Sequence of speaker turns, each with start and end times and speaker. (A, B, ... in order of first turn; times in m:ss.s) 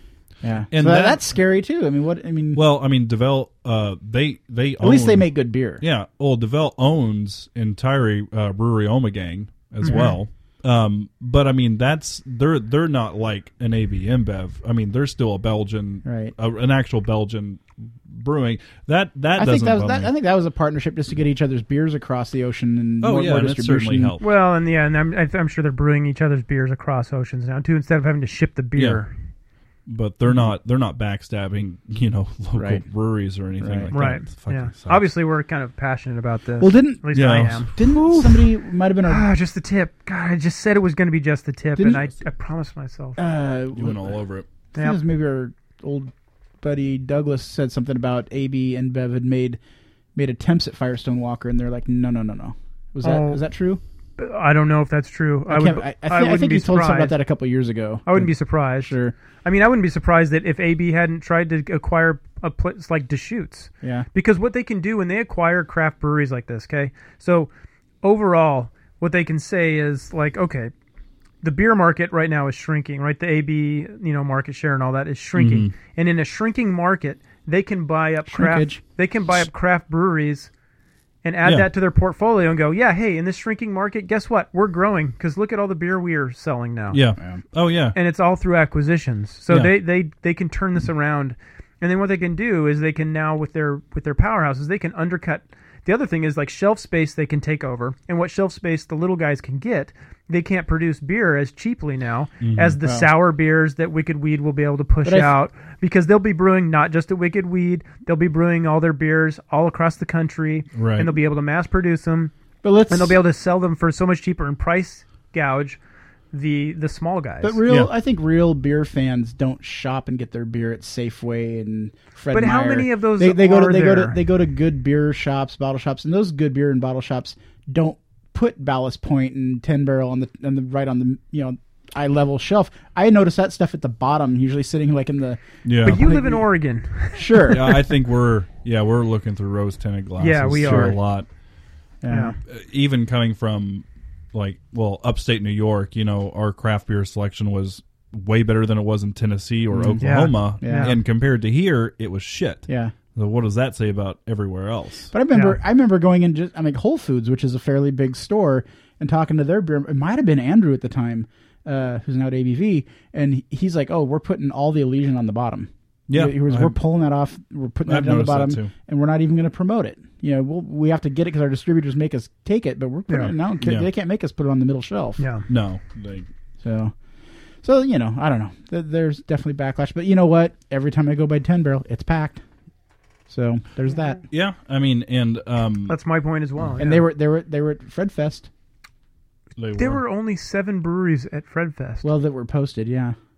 0:00.4-0:02.6 A
0:00.7-0:01.2 B
0:02.5-0:20.1 B
0:04.8-0:05.8 A
0:09.8-0:10.1 C
0:09.8-0:10.2 A
0:16.0-0:16.3 A
0:19.4-0:24.2 A
0:23.0-0:24.3 B
0:24.2-0:29.1 C
0:28.8-0:29.0 B
0:29.9-0:35.1 B
0:32.6-0:32.8 A
0:33.6-0:33.9 A
0:33.9-0:43.2 C
0:36.6-0:39.3 A
0:37.1-0:37.7 B
0:41.8-0:42.1 A
0:43.2-0:44.2 A
0:43.8-0:44.5 B
0:44.7-0:49.6 A
0:50.2-0:53.8 A
0:53.0-0:53.4 C
0:54.2-0:57.2 C
0:55.5-0:59.1 A
0:58.1-1:07.5 C
1:08.0-1:10.7 C
1:11.4-1:20.5 C
1:15.4-1:15.7 B
1:18.3-1:18.8 A
1:21.2-1:27.0 C
1:21.4-1:21.7 B
1:26.9-1:28.0 B
1:27.9-1:52.3 C
1:42.4-1:42.8 B
1:42.8-1:43.1 A
1:45.0-1:45.3 A
1:50.7-1:51.1 B
1:52.6-1:53.2 A
1:52.9-1:55.8 C
1:56.3-1:57.6 C
1:57.4-2:16.5 A
2:02.3-2:04.2 C
2:15.6-2:16.0 B
2:15.8-2:17.8 C
2:17.1-2:17.7 A
2:17.5-2:21.3 B
2:20.2-2:21.0 C
2:20.6-2:21.0 A
2:22.0-2:22.4 A
2:22.5-2:35.1 B
2:29.7-2:31.0 A
2:30.0-2:31.0 C
2:32.7-2:32.9 A
2:35.1-2:55.2 A
2:46.1-2:46.8 B
2:47.9-2:48.7 B
2:53.1-2:53.3 C
2:53.6-2:53.9 B
2:55.2-2:55.5 C
2:55.5-2:56.3 B
2:56.6-2:56.9 A
2:57.6-3:02.4 A
3:03.3-3:04.2 A
3:04.3-3:06.0 B
3:05.9-3:07.0 C
3:06.8-3:08.5 A
3:09.6-3:10.0 B
3:09.8-3:12.1 C
3:12.0-3:13.2 A